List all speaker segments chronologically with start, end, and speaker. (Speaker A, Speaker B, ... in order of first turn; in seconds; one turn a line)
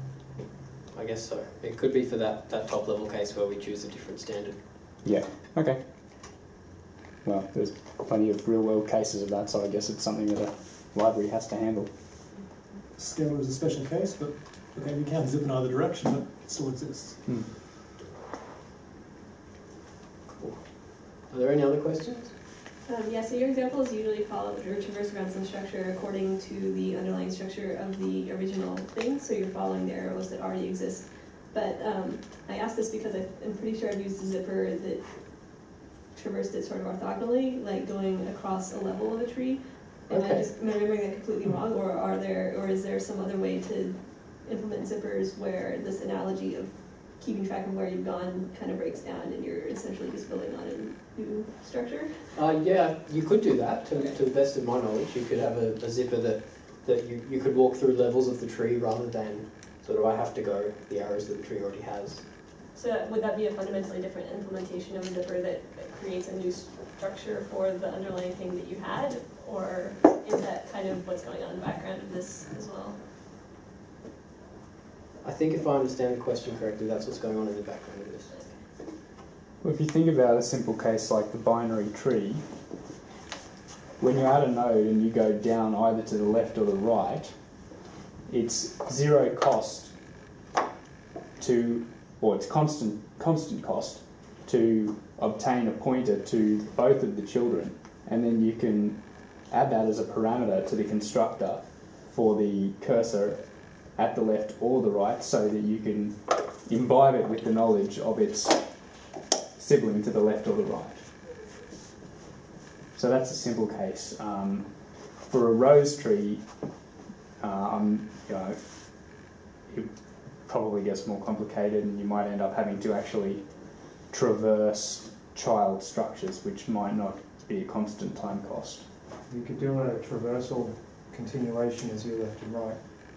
Speaker A: 0.9-4.6
Speaker B: 5.0-6.4
Speaker B: 7.2-12.3
Speaker C: 12.9-17.3
Speaker A: 20.4-22.3
Speaker D: 22.9-52.2
Speaker A: 40.1-40.5
Speaker A: 52.4-62.3
Speaker D: 62.7-73.0
Speaker A: 75.2-78.3
Speaker D: 78.3-78.6
Speaker B: 79.6-82.5
Speaker B: 84.0-87.7
Speaker B: 88.3-90.2
Speaker B: 91.4-109.0
Speaker B: 109.5-111.2
Speaker B: 112.9-116.7
Speaker B: 117.4-128.9
Speaker E: 129.3-132.8